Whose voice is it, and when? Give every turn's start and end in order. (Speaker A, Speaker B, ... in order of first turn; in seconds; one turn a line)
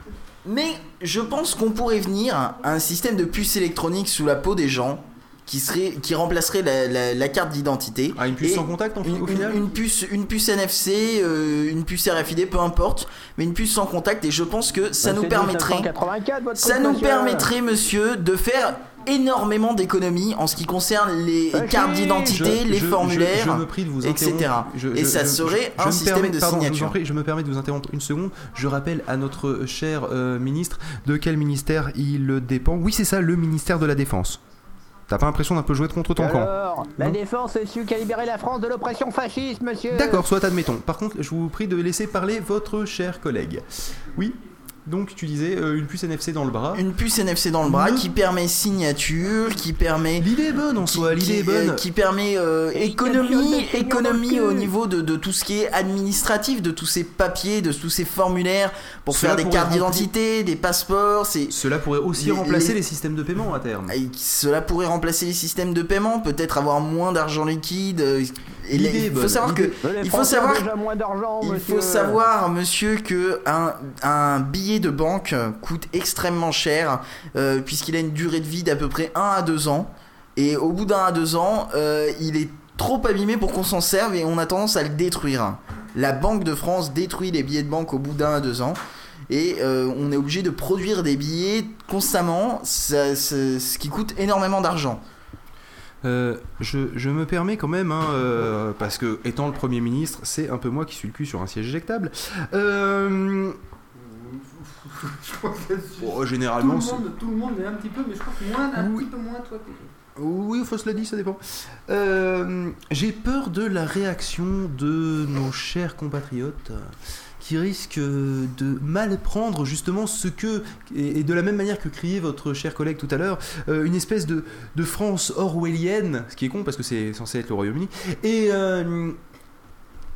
Speaker A: 0.4-15.9
Speaker B: 8.2-9.6
Speaker C: 15.0-17.5
Speaker A: 16.6-26.9
Speaker C: 21.5-22.6
Speaker B: 22.2-34.4
Speaker B: 35.1-37.1
Speaker C: 36.1-40.3
Speaker B: 39.9-46.8
Speaker A: 46.7-50.3
Speaker B: 47.6-48.1
Speaker B: 50.2-51.8
Speaker A: 50.8-61.6
Speaker C: 52.7-54.7
Speaker B: 59.1-60.1
Speaker B: 61.5-63.9
Speaker A: 62.1-62.8
Speaker A: 63.9-70.6
Speaker B: 68.7-69.7
Speaker C: 69.8-72.2
Speaker A: 71.4-95.0
Speaker B: 96.0-103.6
Speaker D: 104.0-109.9
Speaker B: 106.0-107.0
Speaker B: 108.8-109.0
Speaker B: 110.2-129.2